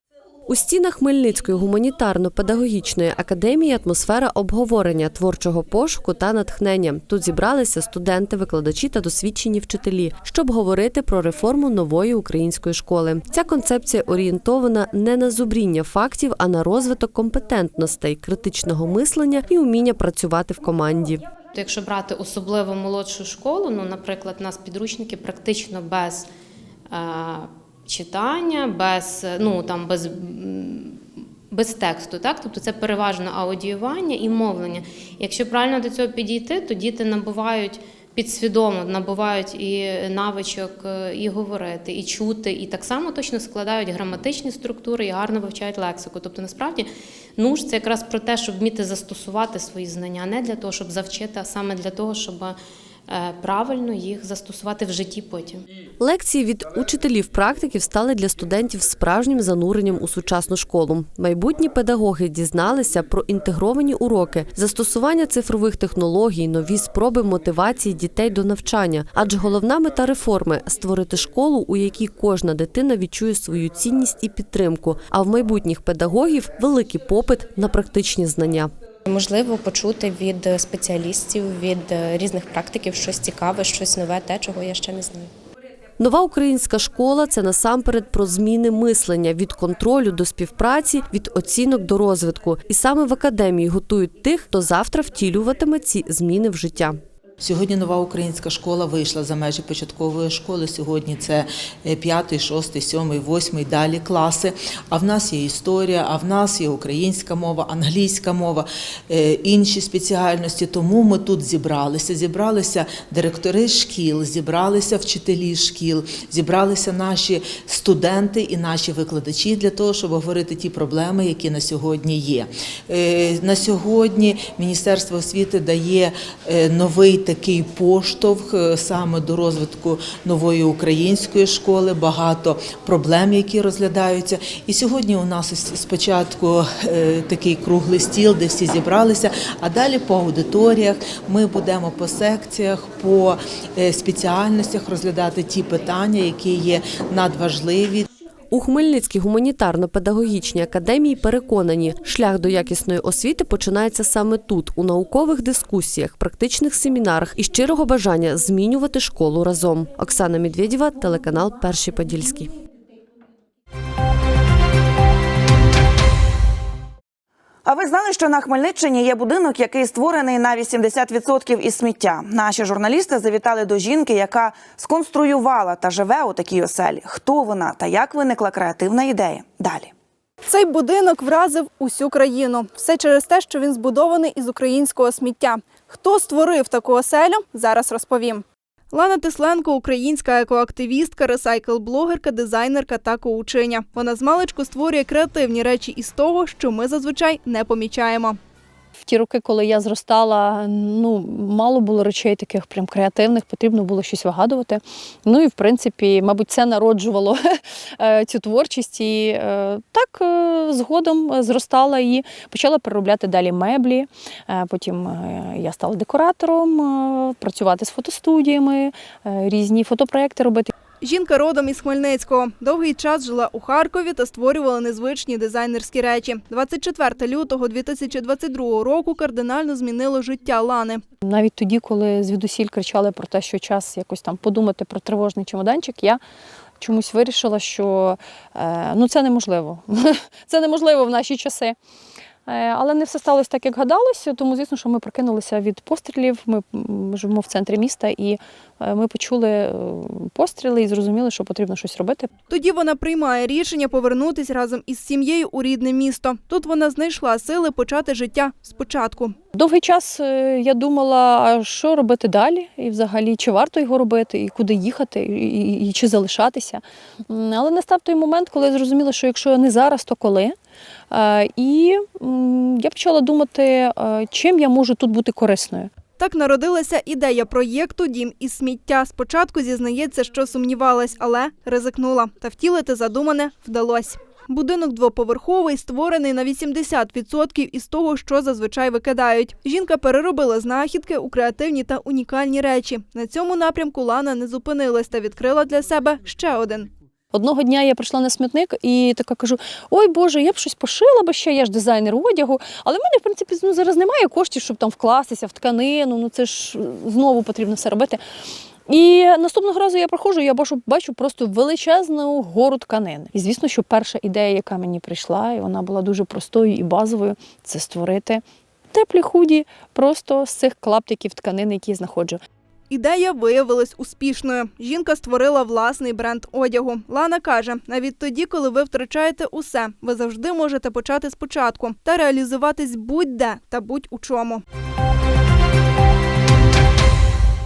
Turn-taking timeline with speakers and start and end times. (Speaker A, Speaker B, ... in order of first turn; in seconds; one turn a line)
Speaker A: 0.5-21.2
Speaker B: 21.5-26.3
Speaker B: 26.9-52.6
Speaker B: 53.1-55.6
Speaker A: 56.0-78.7
Speaker C: 79.0-85.3
Speaker A: 86.0-97.0
Speaker D: 97.4-148.1
Speaker A: 148.5-162.5
Speaker E: 167.7-179.9
Speaker F: 180.4-198.4
Speaker G: 199.1-220.7
Speaker F: 221.0-231.0
Speaker G: 231.2-236.2
Speaker G: 236.8-241.7
Speaker G: 242.5-252.3
Speaker F: 252.5-259.3
Speaker G: 259.5-270.5
Speaker G: 271.1-275.9
Speaker F: 276.2-296.9
Speaker G: 297.3-308.2
Speaker G: 308.9-322.4
Speaker F: 322.9-334.6